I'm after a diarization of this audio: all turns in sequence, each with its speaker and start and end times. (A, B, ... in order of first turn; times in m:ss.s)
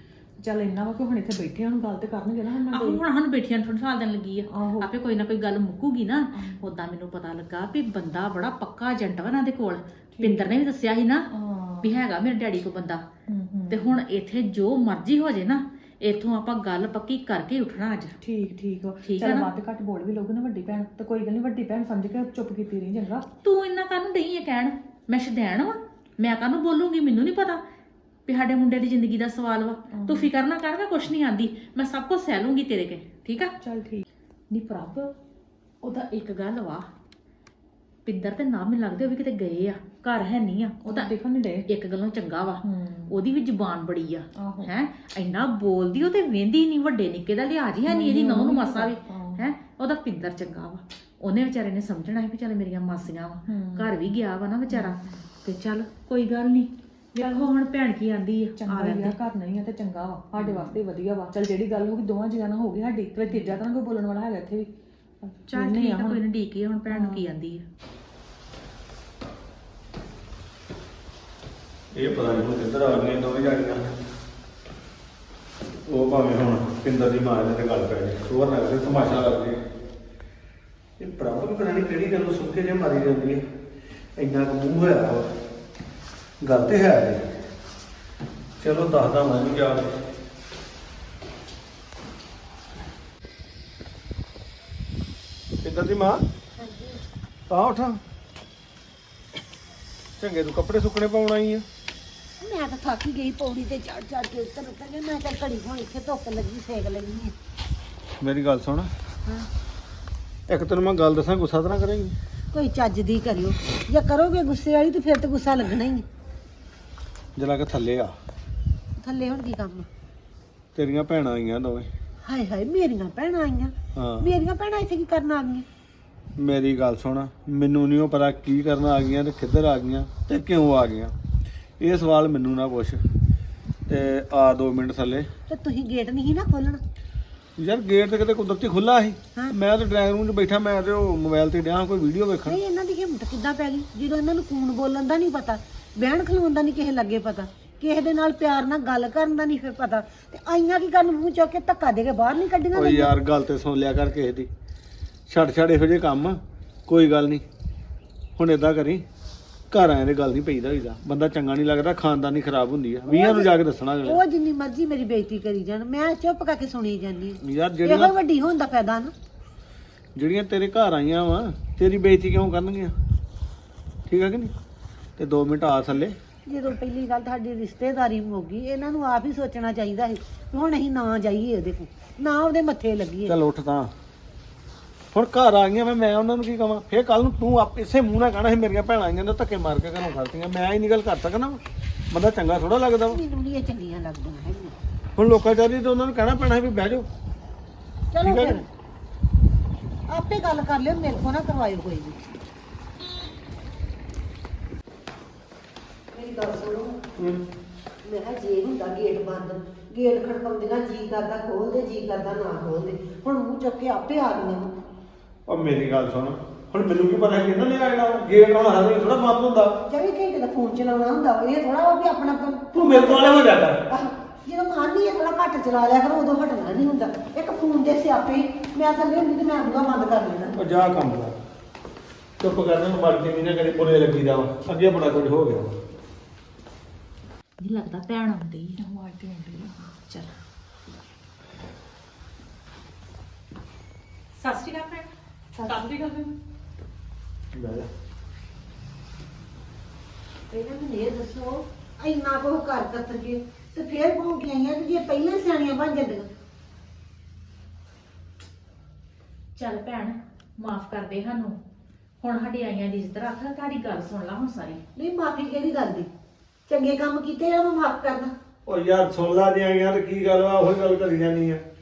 0:00.4-0:03.0 A
0:02.7-0:11.3 B
0:04.5-0:04.9 A
0:06.3-0:06.6 A
0:10.2-0:10.6 A
0:11.3-0:11.9 A
0:11.8-0:13.0 B
0:13.3-0:14.0 A
0:13.7-0:18.2 B
0:18.2-0:23.3 A
0:19.0-0:19.5 B
0:23.4-0:27.6 B
0:28.3-0:33.5 B
0:29.9-0:30.3 A
0:33.6-0:34.0 A
0:34.5-0:35.1 B
0:35.8-0:36.9 B
0:38.0-0:41.1 B
0:40.8-0:41.7 A
0:41.7-0:59.2 B
0:42.6-0:43.1 A
0:44.4-0:44.7 A
0:47.9-0:49.4 A
0:53.5-0:53.9 A
0:54.7-0:55.2 A
0:57.2-0:57.5 A
0:58.6-1:04.7 A
1:00.4-1:00.8 B
1:03.3-1:03.6 B
1:05.2-1:06.2 A
1:05.5-1:07.6 B
1:06.9-1:07.2 A
1:11.9-1:13.9 C
1:15.9-1:19.6 C
1:21.0-1:23.4 C
1:24.2-1:25.3 C
1:26.4-1:27.4 C
1:28.6-1:30.0 C
1:35.6-1:36.2 C
1:37.5-1:38.0 C
1:40.2-1:41.7 C
1:42.4-1:47.4 D
1:48.2-1:48.9 C
1:50.5-1:52.2 C
1:52.5-1:56.0 D
1:57.4-1:58.2 C
1:59.0-1:59.9 D
2:00.8-2:01.9 C
2:02.2-2:05.7 D
2:04.0-2:04.3 C
2:06.4-2:11.1 C
2:11.8-2:13.0 C
2:13.9-2:15.3 C
2:15.5-2:16.8 D
2:17.6-2:22.6 C
2:22.5-2:33.1 D
2:32.7-2:34.5 C
2:35.3-2:37.4 C
2:38.4-2:39.0 C
2:39.7-2:44.2 C
2:43.1-2:43.5 D
2:44.0-2:49.1 D
2:47.4-2:48.1 C
2:50.2-2:53.0 C
2:54.1-2:54.5 C
2:55.2-2:56.2 C
2:56.5-3:03.4 D
3:03.3-3:03.9 C
3:05.1-3:13.2 C
3:13.1-3:14.8 D
3:15.2-3:17.1 C
3:18.1-3:18.7 D
3:18.2-3:18.6 C
3:20.1-3:22.2 D
3:26.1-3:27.0 D
3:27.2-3:27.4 C
3:28.0-3:34.7 D
3:35.5-3:39.8 C
3:39.9-3:50.6 D
3:42.7-3:43.9 C
3:50.6-3:51.4 C
3:52.4-3:55.8 C
3:57.6-3:58.8 B
3:58.8-4:00.0 A
4:04.4-4:05.1 B
4:05.5-4:06.3 A
4:07.5-4:07.9 C
4:10.5-4:16.3 D
4:19.6-4:21.6 B
4:22.2-4:24.8 B
4:25.0-4:26.1 D
4:26.7-4:28.3 D
4:28.7-4:31.6 C